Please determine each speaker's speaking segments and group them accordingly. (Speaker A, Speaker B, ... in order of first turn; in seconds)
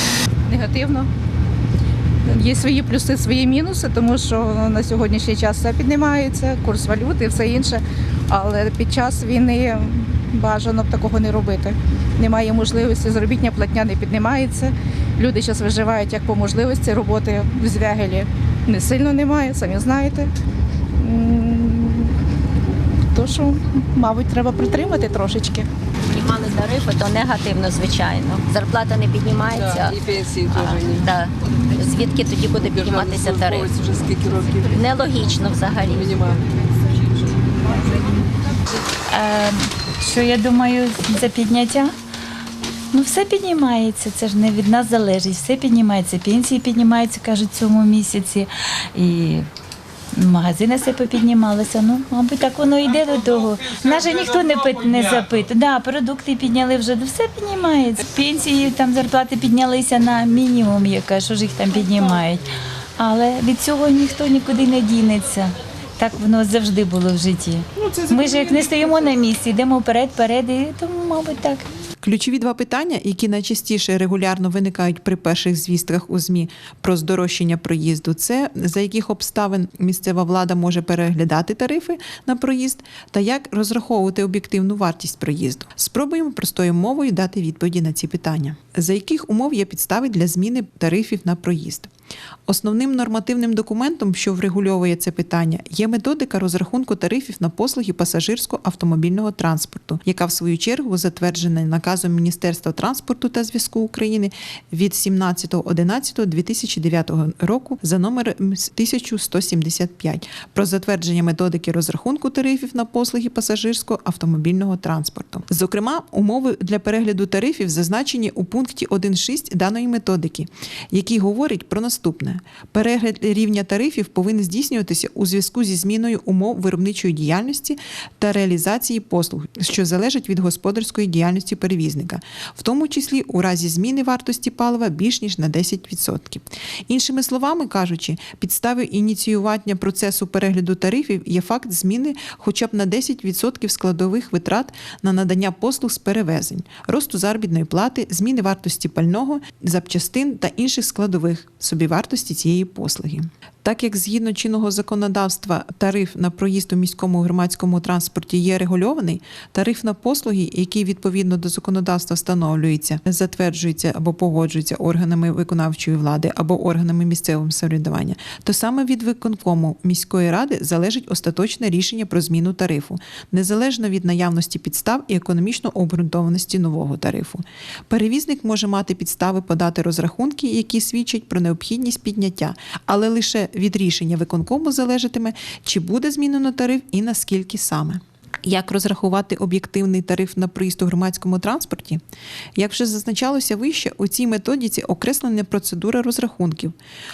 Speaker A: 0.5-1.1, 2.2-20.3, 21.0-22.2, 23.1-25.7
Speaker B: 26.1-29.9, 30.5-33.7, 34.7-36.1
Speaker C: 29.5-31.2, 32.5-35.0, 35.8-36.4, 37.3-37.8
Speaker D: 39.1-41.9, 42.9-49.5, 50.1-71.7
Speaker E: 72.0-91.9, 92.5-192.0, 192.6-196.7